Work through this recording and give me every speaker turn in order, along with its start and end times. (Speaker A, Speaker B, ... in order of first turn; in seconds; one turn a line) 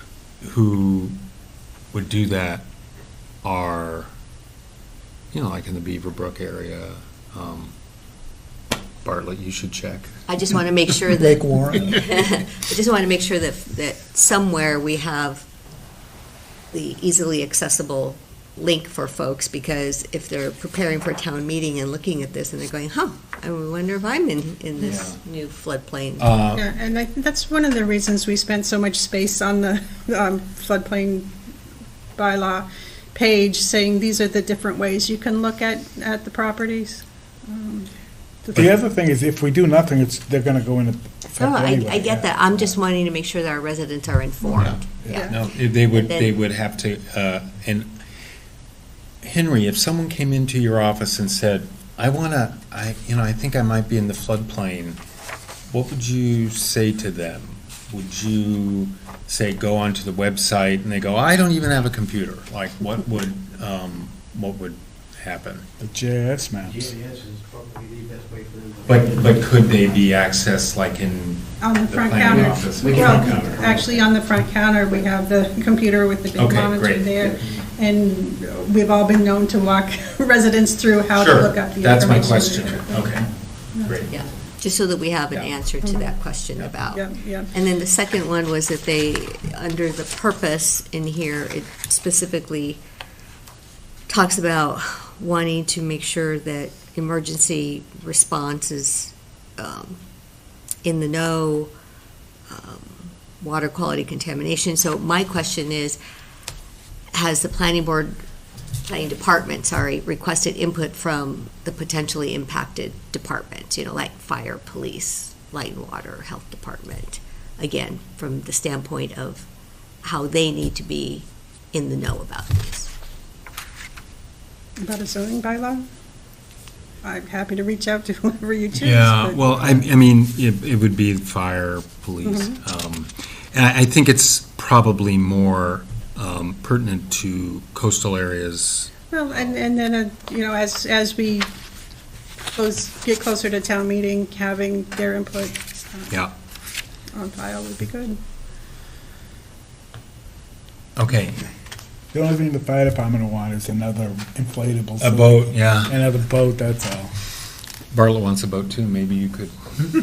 Speaker A: 0.4-1.2
Speaker A: 1.9-2.6
Speaker A: 3.4-4.1
Speaker A: 5.3-7.7
Speaker A: 9.0-10.1
Speaker B: 10.3-15.4
Speaker C: 11.4-11.8
Speaker B: 16.7-26.3
Speaker A: 24.8-25.2
Speaker A: 26.2-26.7
Speaker D: 26.5-31.3
Speaker D: 32.1-37.9
Speaker C: 38.5-42.7
Speaker B: 41.3-46.3
Speaker A: 44.6-48.0
Speaker D: 45.1-45.4
Speaker A: 49.2-55.0
Speaker A: 55.7-65.7
Speaker C: 65.8-66.9
Speaker E: 66.7-70.1
Speaker A: 68.8-73.6
Speaker D: 71.6-83.2
Speaker E: 72.3-74.1
Speaker A: 76.4-77.5
Speaker A: 81.1-83.3
Speaker D: 83.7-84.1
Speaker A: 83.8-84.1
Speaker B: 84.1-92.8
Speaker D: 85.8-86.1
Speaker D: 86.9-87.5
Speaker B: 94.1-100.0
Speaker B: 100.8-101.7
Speaker B: 102.5-106.0
Speaker B: 107.1-108.2
Speaker B: 108.9-119.5
Speaker B: 120.0-122.9
Speaker D: 124.8-125.8
Speaker D: 127.0-129.7
Speaker A: 128.7-139.6
Speaker D: 132.2-132.6
Speaker D: 139.1-141.5
Speaker D: 142.5-146.1
Speaker D: 147.1-148.2
Speaker A: 150.9-151.4
Speaker C: 152.1-157.1
Speaker A: 155.0-155.9
Speaker A: 157.9-159.8